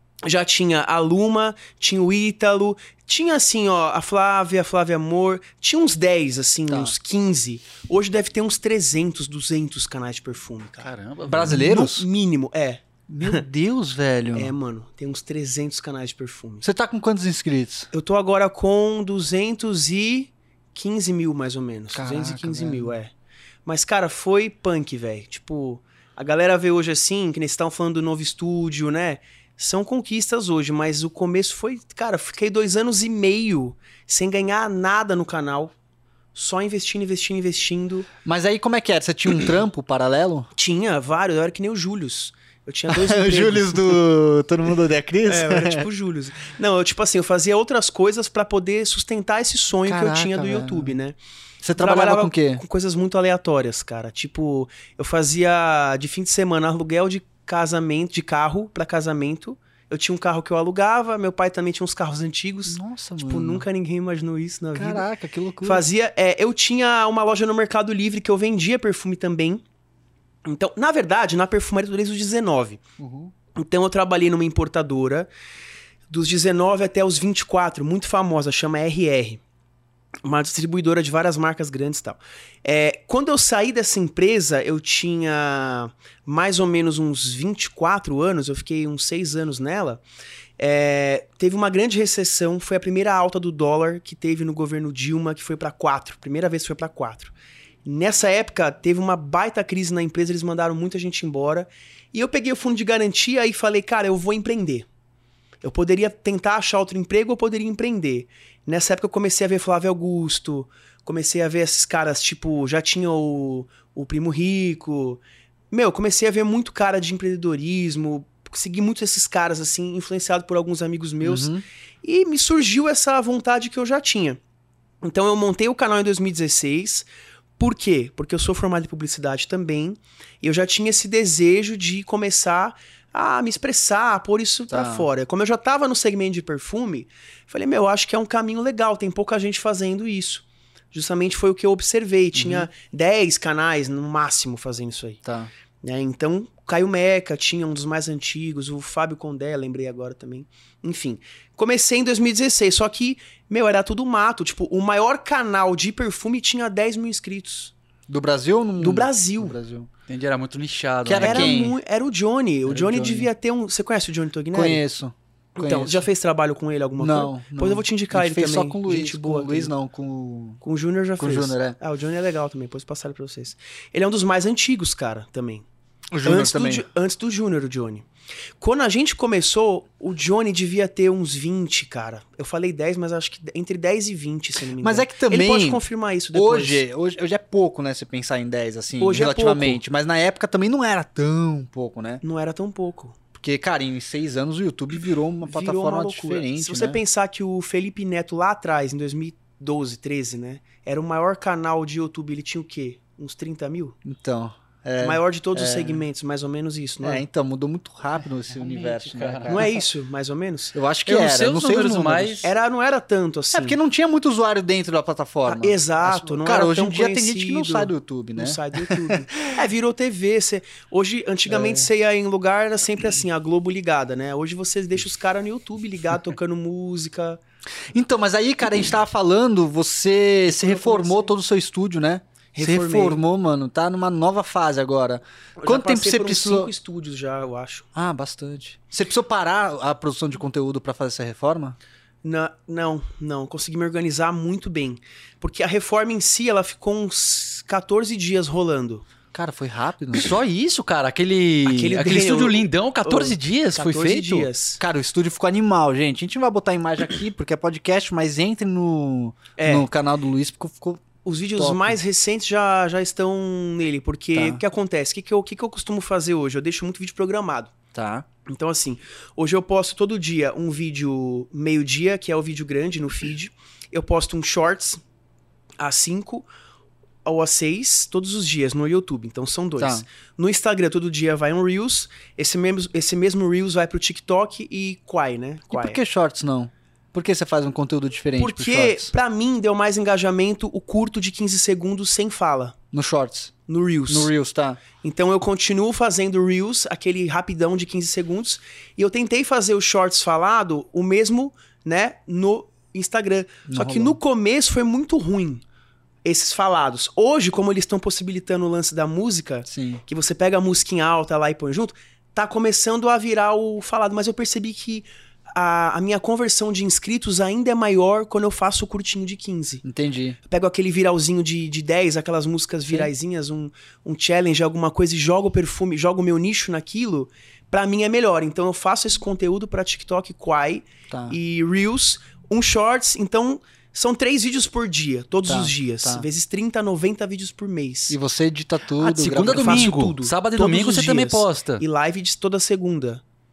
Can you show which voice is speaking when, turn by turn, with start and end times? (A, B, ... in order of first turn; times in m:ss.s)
0:00.3-0:10.9 A
0:06.7-0:06.9 B
0:10.8-0:11.6 C
0:11.3-0:12.1 B
0:11.4-0:13.4 A
0:13.1-0:14.5 B
0:14.3-0:16.7 A
0:16.6-0:17.9 B
0:17.9-0:23.1 A
0:21.9-0:22.9 B
0:23.6-0:35.7 A
0:36.3-0:38.1 A
0:38.2-0:40.5 B
0:40.6-0:44.0 A
0:42.9-0:45.9 B
0:45.2-0:51.2 A
0:49.9-0:51.0 B
0:51.6-0:52.6 B
0:51.8-1:05.1 A
1:02.7-1:03.6 B
1:04.8-1:05.9 B
1:05.6-1:09.6 A
1:10.4-1:12.8 A
1:13.0-1:13.3 B
1:13.6-1:15.3 A
1:16.1-1:19.4 A
1:20.2-1:30.0 A
1:30.6-1:37.3 A
1:37.8-1:44.9 A
1:45.6-1:55.2 A
1:55.7-2:04.4 A
2:01.2-2:01.6 B
2:05.0-2:07.1 A
2:07.6-2:25.2 A
2:14.7-2:15.1 B
2:22.3-2:22.7 B
2:25.2-2:25.5 B
2:25.8-2:37.7 A
2:38.1-2:39.9 B
2:38.8-2:39.6 A
2:40.1-2:41.5 C
2:41.1-2:41.8 B
2:41.2-2:44.8 A
2:42.7-2:43.3 B
2:44.5-2:46.1 B
2:45.6-2:49.7 A
2:47.0-2:50.6 B
2:50.6-2:55.7 A
2:51.2-2:51.8 B
2:56.1-2:56.8 B
2:56.2-2:58.1 A
2:58.6-3:06.8 A
3:04.8-3:12.2 B
3:09.0-3:09.8 A
3:12.2-3:13.2 A
3:13.3-3:17.0 B
3:15.4-3:24.0 A
3:24.0-3:26.0 B
3:25.0-3:27.2 A
3:27.0-3:29.7 B
3:28.6-3:29.8 C
3:29.5-3:30.8 A
3:30.7-3:32.5 B
3:31.1-3:32.5 C
3:32.4-3:33.8 A
3:33.5-3:39.6 B
3:35.5-3:47.4 A
3:41.5-3:41.9 B
3:47.9-3:56.7 B
3:50.5-3:51.3 A
3:52.5-3:53.2 A
3:55.6-3:57.9 A
3:58.0-4:01.8 B
4:02.2-4:09.0 A
4:09.3-4:10.4 B
4:10.1-4:14.5 C
4:11.7-4:14.8 A
4:14.8-4:22.0 B
4:19.6-4:19.9 A
4:21.2-4:27.7 A
4:24.4-4:24.6 B
4:27.9-4:28.3 B
4:28.5-4:35.0 A
4:35.8-4:36.5 A
4:37.2-4:46.0 A
4:39.8-4:40.0 B
4:45.7-4:49.1 B
4:48.4-4:52.8 A
4:52.9-4:53.5 B
4:53.7-4:54.3 A
4:54.1-4:54.8 B
4:55.0-5:05.6 A
5:03.7-5:04.2 B
5:06.2-5:19.8 A
5:09.7-5:10.0 B
5:19.8-5:20.4 B
5:20.4-5:38.2 A
5:31.1-5:31.4 B
5:35.5-5:36.3 B
5:38.1-5:39.9 B
5:39.0-5:41.8 C
5:39.4-5:43.2 A